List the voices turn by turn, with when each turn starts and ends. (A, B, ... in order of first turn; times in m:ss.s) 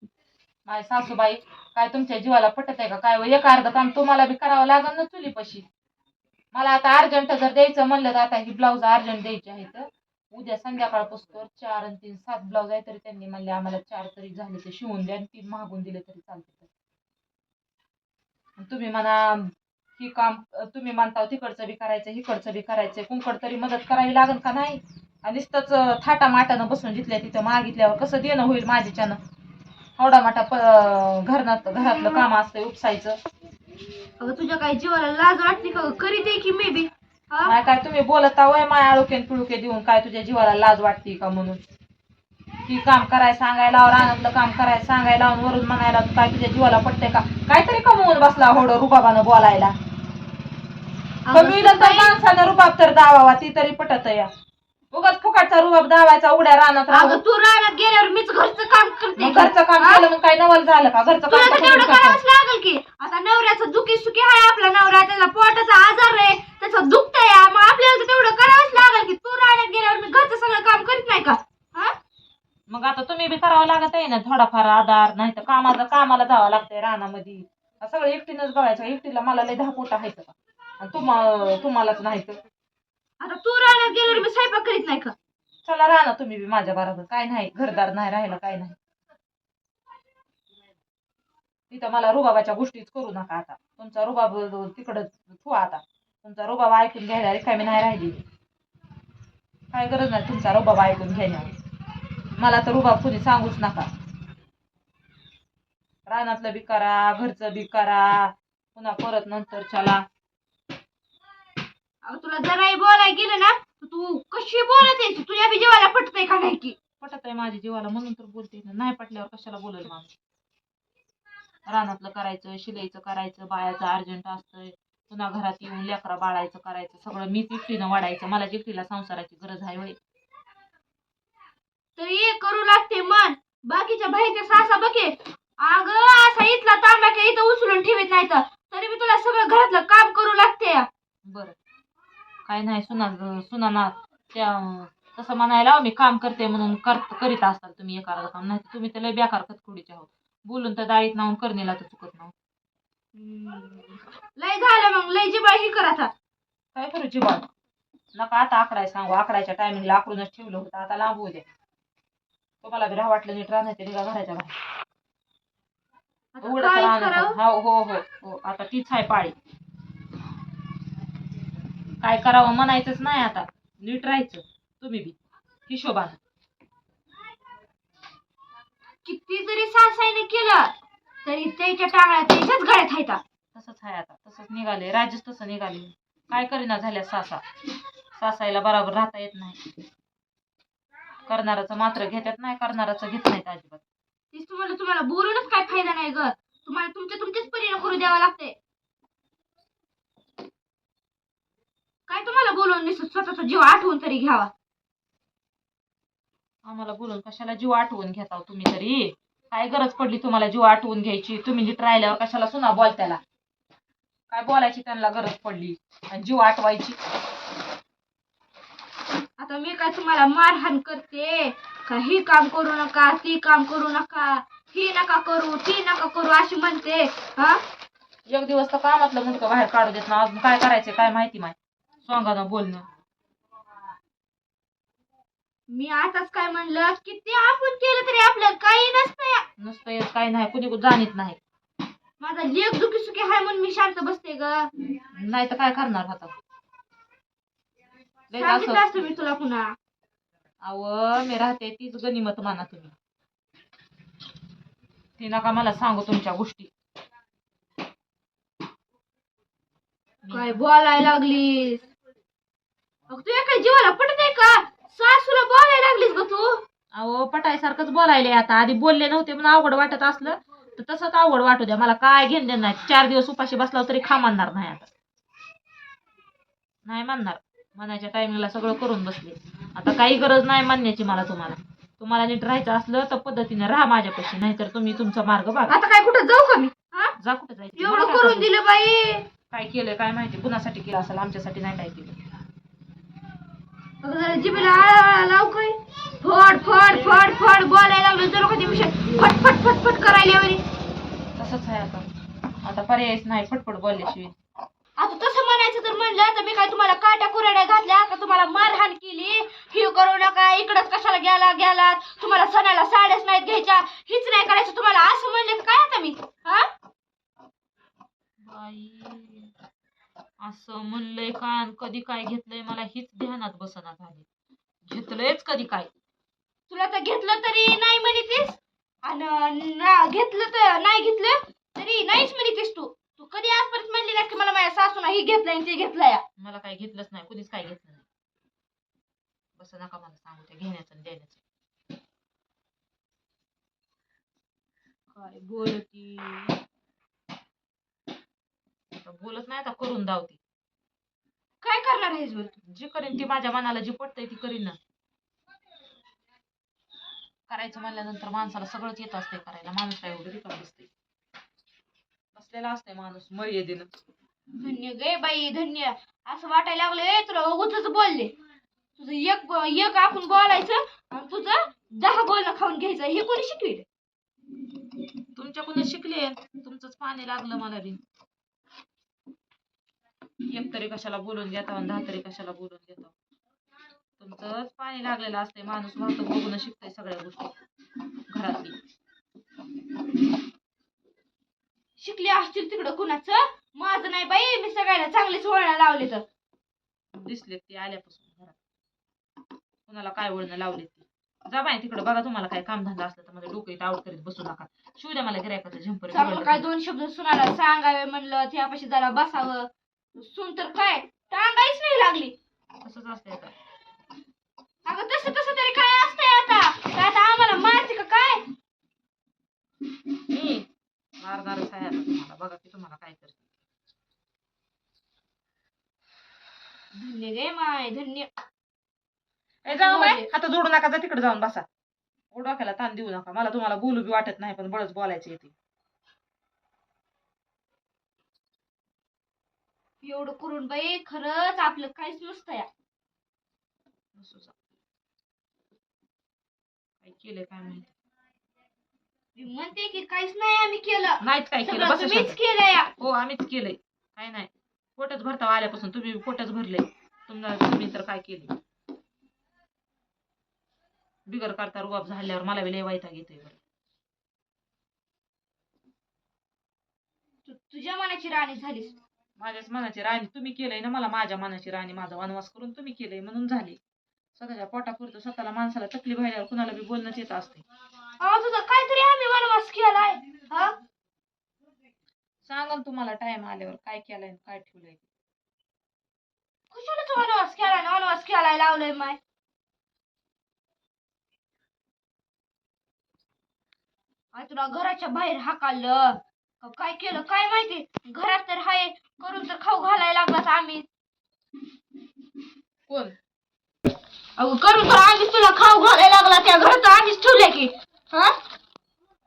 0:00.6-0:05.6 A
0:06.5-0:16.7 A
0:18.6-0:29.2 A
0:30.0-0:33.2 A
0:34.2-0:37.5 B
0:37.4-0:41.6 A
0:42.6-0:49.7 A
0:51.2-0:52.2 B
0:51.3-0:54.3 A
0:54.9-0:57.2 A
0:56.9-1:00.0 B
0:59.2-1:02.2 A
1:01.3-1:11.9 B
1:12.7-1:22.4 A
1:23.2-1:25.1 B
1:25.6-1:28.8 A
1:31.7-1:38.2 A
1:39.7-1:41.5 A
1:42.4-1:43.9 A
1:46.0-1:50.0 A
1:52.0-1:56.8 B
1:57.0-2:00.2 A
2:01.7-2:10.0 A
2:12.0-2:20.9 B
2:21.2-2:21.6 A
2:22.4-2:32.3 A
2:33.1-2:36.1 B
2:36.7-2:37.5 A
2:38.1-2:41.4 A
2:42.6-2:44.5 A
2:46.3-2:47.4 B
2:46.4-2:49.3 A
2:52.0-2:55.1 A
2:55.7-2:56.2 A
2:59.0-3:00.7 B
3:01.2-3:03.2 B
3:03.5-3:07.4 A
3:08.2-3:09.6 A
3:11.3-3:13.8 A
3:14.3-3:18.6 B
3:22.1-3:24.5 B
3:26.6-3:33.2 A
3:34.3-3:37.0 A
3:39.4-3:47.6 B
3:48.3-3:52.8 A
3:55.7-3:59.4 B
3:59.6-4:01.4 A
4:02.2-4:04.7 B
4:05.1-4:06.3 A
4:08.3-4:08.9 A
4:08.3-4:09.7 B
4:10.6-4:12.9 A
4:15.2-4:16.7 A
4:20.2-4:20.6 A
4:20.3-4:21.8 B
4:23.1-4:26.6 B
4:27.0-4:34.9 A
4:36.8-4:45.7 A
4:45.7-4:47.1 B
4:47.2-4:48.5 A
4:47.8-4:49.3 B
4:49.5-4:52.2 A
4:54.0-5:00.6 B
5:01.4-5:02.0 A
5:02.6-5:04.3 A
5:05.0-5:16.7 B
5:18.4-5:19.5 A
5:20.4-5:24.2 A
5:24.9-5:25.9 A
5:26.7-5:36.2 B
5:36.4-5:38.0 A
5:39.6-5:41.4 A
5:45.1-5:46.6 B
5:49.0-5:50.4 A
5:51.6-5:52.6 B
5:52.6-5:54.8 A
5:57.5-6:00.9 A
6:02.3-6:03.9 A
6:04.6-6:08.4 B
6:09.0-6:13.8 B
6:15.4-6:18.0 A
6:20.5-6:23.1 A
6:24.2-6:27.5 A
6:28.3-6:28.8 A
6:32.0-6:36.2 B
6:37.1-6:38.6 A
6:39.9-6:46.6 A
6:46.1-6:52.3 B
6:52.8-6:53.5 A
6:54.8-6:58.5 B
7:00.3-7:00.6 A
7:01.2-7:03.4 A
7:06.9-7:08.3 B
7:09.6-7:11.6 A
7:09.7-7:10.3 B
7:12.3-7:15.5 A
7:20.0-7:22.7 B
7:24.2-7:24.5 A
7:27.0-7:27.8 A
7:29.4-7:32.9 B
7:31.2-7:32.4 A
7:33.0-7:38.5 A
7:41.2-7:43.6 A
7:47.4-7:49.0 B
7:49.4-7:53.8 A
7:54.4-7:57.6 A
7:58.2-8:00.8 B
8:02.4-8:05.0 A
8:06.7-8:09.2 B
8:14.3-8:20.8 B
8:22.9-8:23.1 A
8:24.4-8:28.3 B